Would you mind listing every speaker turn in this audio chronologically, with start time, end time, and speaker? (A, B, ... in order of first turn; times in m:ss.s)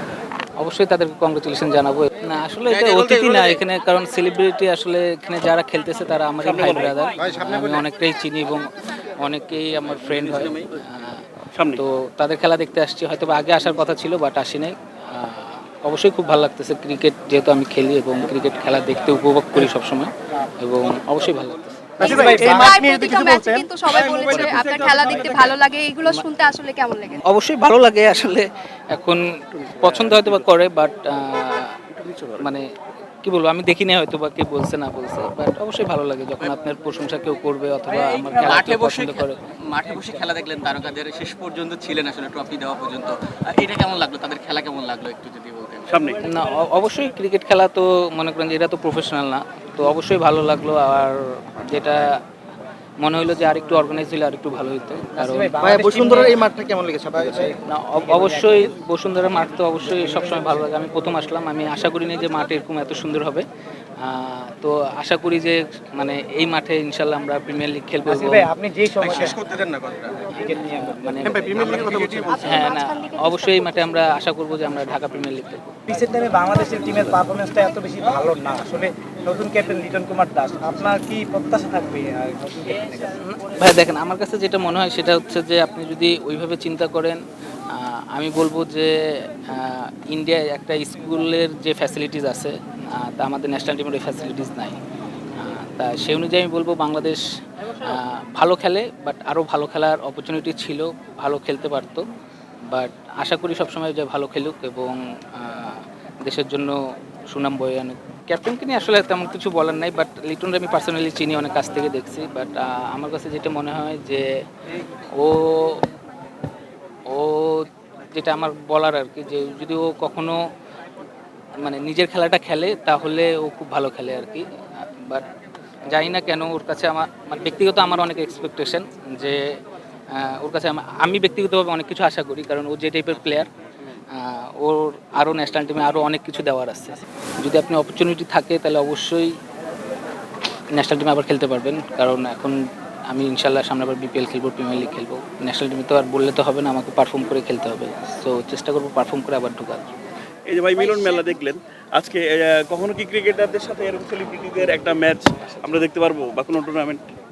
0:00.6-0:11.2 A
0:02.8-0:03.4 B
0:06.4-0:07.0 C
0:07.2-0:07.6 D
0:10.1-0:10.6 B
0:11.6-0:11.8 C
0:11.8-0:22.0 A
0:22.0-0:27.2 E
0:22.0-0:22.7 D
0:22.0-0:23.6 F
0:24.0-0:25.5 C
0:27.2-0:31.8 A
0:29.7-0:30.5 C
0:31.9-0:32.5 C
0:32.4-0:32.6 A
0:33.2-0:39.4 A
0:38.0-0:45.9 B
0:45.9-0:46.2 C
0:46.2-0:52.2 A
0:53.0-0:56.2 A
0:55.2-0:56.4 F
0:55.6-0:57.5 D
0:57.3-0:57.5 F
0:57.4-1:03.5 A
0:58.0-0:58.5 F
1:04.0-1:08.5 A
1:08.1-1:09.4 F
1:09.0-1:09.4 A
1:10.3-1:12.2 F
1:10.4-1:15.8 A
1:12.0-1:13.9 E
1:15.9-1:23.1 F
1:23.2-1:27.2 A
1:27.7-1:34.8 A
1:35.4-1:37.2 A
1:37.8-1:42.0 A
1:42.7-1:54.3 A
1:55.2-1:55.8 A
1:57.1-2:00.4 A
2:01.6-2:05.3 A
2:05.9-2:09.6 A
2:10.1-2:13.5 A
2:14.1-2:19.4 A
2:20.7-2:29.8 A
2:30.5-2:37.0 C
2:30.8-2:31.1 E